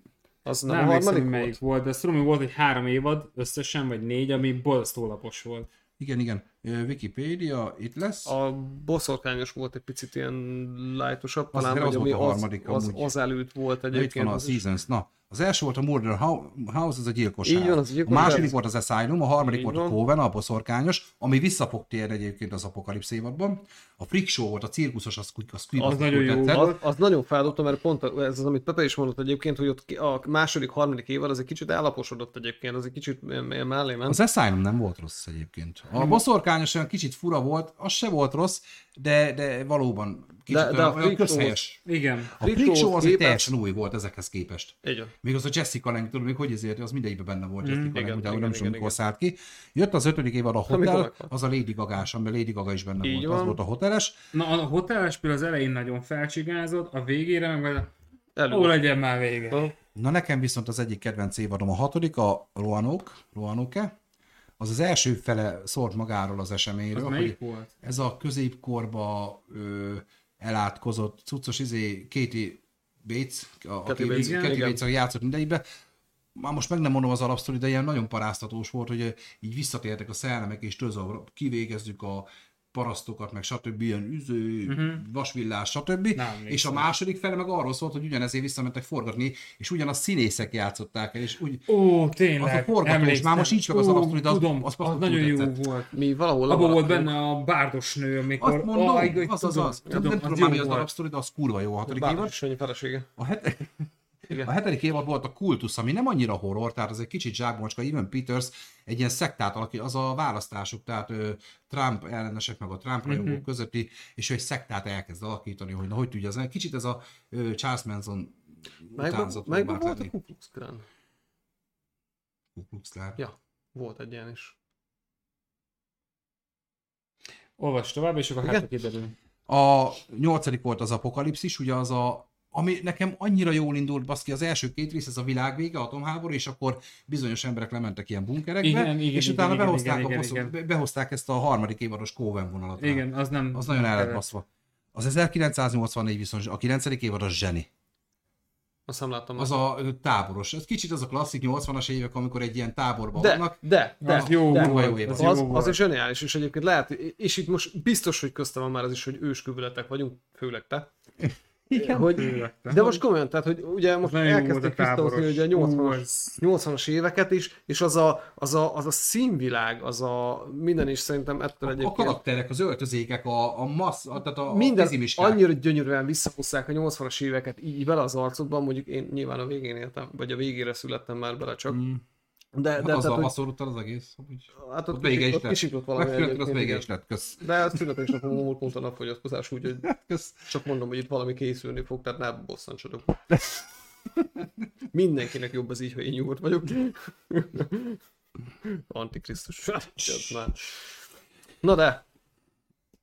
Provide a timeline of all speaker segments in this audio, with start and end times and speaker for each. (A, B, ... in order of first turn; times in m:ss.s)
0:00.4-0:01.6 A
0:00.7-0:05.7 B
0:06.0-0:08.3 C
0:08.3-0:14.6 A
0:11.5-0:13.1 C
0:13.9-0:26.7 C
0:17.4-0:18.6 A
0:19.4-0:20.0 A
0:25.8-0:26.8 B
0:25.8-0:34.2 A
0:34.1-0:41.8 C
0:40.5-0:41.6 A
0:41.9-0:42.3 B
0:42.4-0:54.2 C
0:42.4-0:43.5 A
0:44.8-0:45.1 A
0:47.6-0:48.0 B
0:47.9-0:49.0 A
0:50.7-0:51.3 A
0:53.0-0:53.6 A
0:54.3-0:57.9 B
0:58.4-0:58.8 A
0:58.5-0:59.7 B
1:00.0-1:03.9 C
1:04.6-1:15.6 C
1:06.9-1:07.7 B
1:13.9-1:14.8 A
1:14.1-1:14.7 B
1:16.4-1:31.7 C
1:24.7-1:25.0 B
1:26.2-1:26.9 B
1:31.7-1:35.9 B
1:32.4-1:35.6 C
1:35.9-1:37.2 A
1:36.5-1:40.9 B
1:38.4-1:42.4 C
1:39.9-1:40.2 A
1:41.9-1:43.1 A
1:43.2-1:43.9 C
1:44.4-2:00.1 C
1:53.1-1:53.4 B
1:59.0-2:00.8 A
2:02.6-2:03.2 C
2:03.2-2:04.6 A
2:07.6-2:09.2 B
2:09.5-2:27.7 C
2:18.6-2:20.5 B
2:22.8-2:24.2 B
2:28.9-2:29.6 A
2:29.4-2:33.6 C
2:33.2-2:40.9 A
2:34.0-2:35.8 B
2:34.1-2:35.4 C
2:41.2-2:42.2 C
2:41.7-2:52.2 A
2:42.0-2:43.0 B
2:44.1-2:46.4 B
2:51.6-2:55.4 C
2:54.5-3:01.8 A
3:01.7-3:02.0 C
3:02.5-3:03.3 A
3:02.8-3:07.9 C
3:04.6-3:06.9 A
3:07.4-3:09.9 A
3:09.8-3:10.5 C
3:10.5-3:13.2 A
3:14.9-3:18.0 A
3:18.6-3:20.8 A
3:21.6-3:22.0 A